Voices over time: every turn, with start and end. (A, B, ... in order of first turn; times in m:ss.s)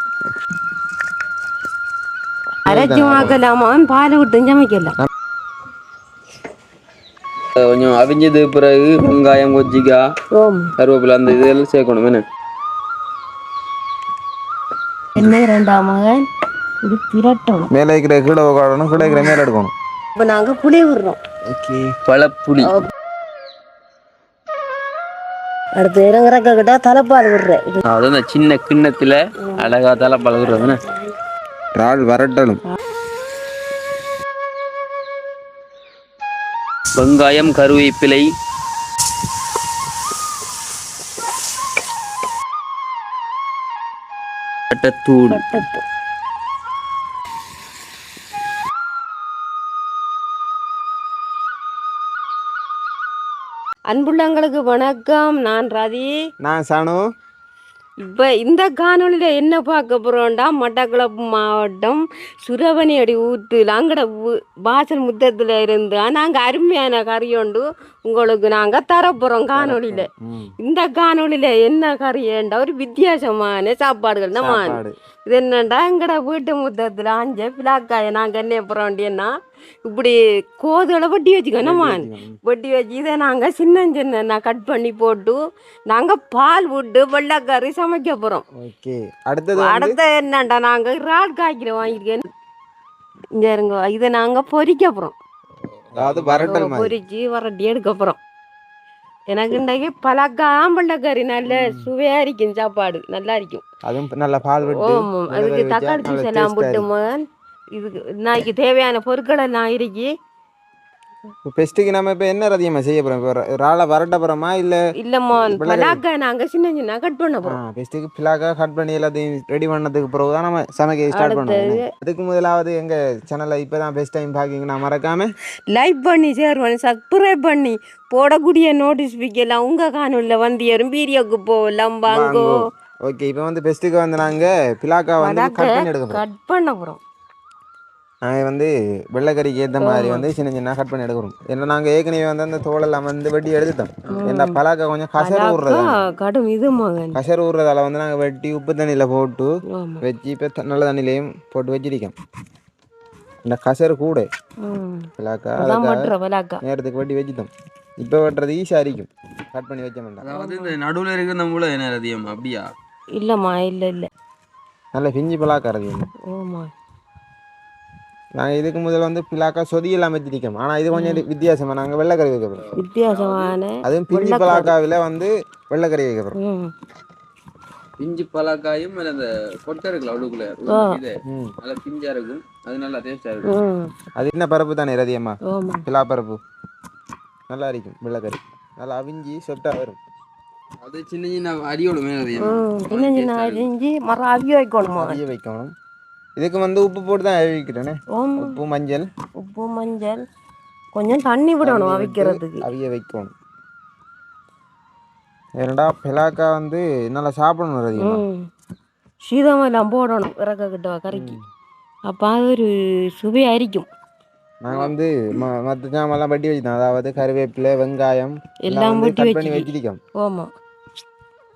0:02.7-0:03.4 A
0:02.7-0:04.9 B
0:07.6-0:10.0 C
0:10.3-0:10.7 B
0:10.8-0:12.2 C
0:15.2-0:16.2 B
0:16.8-0:17.7 B
0:17.7-0:19.7 A
0:19.0-0:19.4 B
0:20.2-0:21.2 B
0:21.5-0:22.0 A
0:22.1-0:22.7 C
0:22.6-0:22.9 B
0:25.8-0:27.8 B
0:27.8-0:30.8 C
0:29.4-0:29.7 B
0:30.5-0:31.1 B
0:31.8-0:32.6 A
0:37.0-0:38.3 C
0:44.7-0:45.4 C
0:45.3-0:45.8 B
0:53.9-0:56.2 B
0:56.4-0:57.0 A
0:58.0-1:10.1 B
1:09.6-1:10.5 A
1:10.6-1:19.3 B
1:14.4-1:15.0 A
1:19.9-1:25.4 B
1:21.6-1:22.4 A
1:25.9-1:28.4 B
1:28.6-1:30.0 A
1:29.6-1:32.3 B
1:33.4-1:35.1 B
1:35.6-1:36.6 C
1:35.9-1:36.9 A
1:36.5-1:38.2 B
1:39.3-1:43.6 B
1:41.5-1:41.9 A
1:43.8-1:46.9 A
1:44.6-1:50.1 B
1:51.4-1:54.8 A
1:55.0-1:57.6 B
1:55.3-1:56.0 A
1:57.4-2:05.3 A
2:01.1-2:01.9 B
2:05.7-2:12.7 B
2:12.1-2:16.2 A
2:15.2-2:17.0 B
2:18.2-2:26.0 A
2:19.8-2:20.3 B
2:24.1-2:24.6 B
2:25.2-2:27.2 B
2:27.2-2:32.2 A
2:29.7-2:30.0 B
2:33.4-2:34.3 A
2:34.6-2:36.6 B
2:35.2-2:36.1 A
2:36.6-2:40.3 A
2:40.2-2:42.7 C
2:40.3-2:40.8 B
2:43.2-2:44.1 B
2:45.0-2:46.1 A
2:46.3-2:46.7 B
2:48.4-2:52.6 A
2:50.9-2:51.2 B
2:52.6-2:53.6 C
2:52.8-2:54.7 B
2:53.8-2:56.4 A
2:56.4-2:56.7 B
2:58.0-3:03.5 C
3:00.7-3:01.0 B
3:01.2-3:01.6 A
3:03.5-3:03.9 B
3:04.2-3:06.4 A
3:05.5-3:05.8 B
3:07.5-3:10.0 A
3:10.8-3:13.7 C
3:12.4-3:15.2 B
3:14.8-3:15.7 A
3:16.4-3:19.1 A
3:18.1-3:18.6 B
3:19.4-3:20.2 B
3:21.0-3:22.6 B
3:21.6-3:23.3 A
3:25.6-3:28.2 A
3:28.0-3:28.5 B
3:29.2-3:31.4 B
3:31.1-3:31.4 A
3:32.1-3:33.9 B
3:34.6-3:40.0 A
3:38.6-3:40.5 B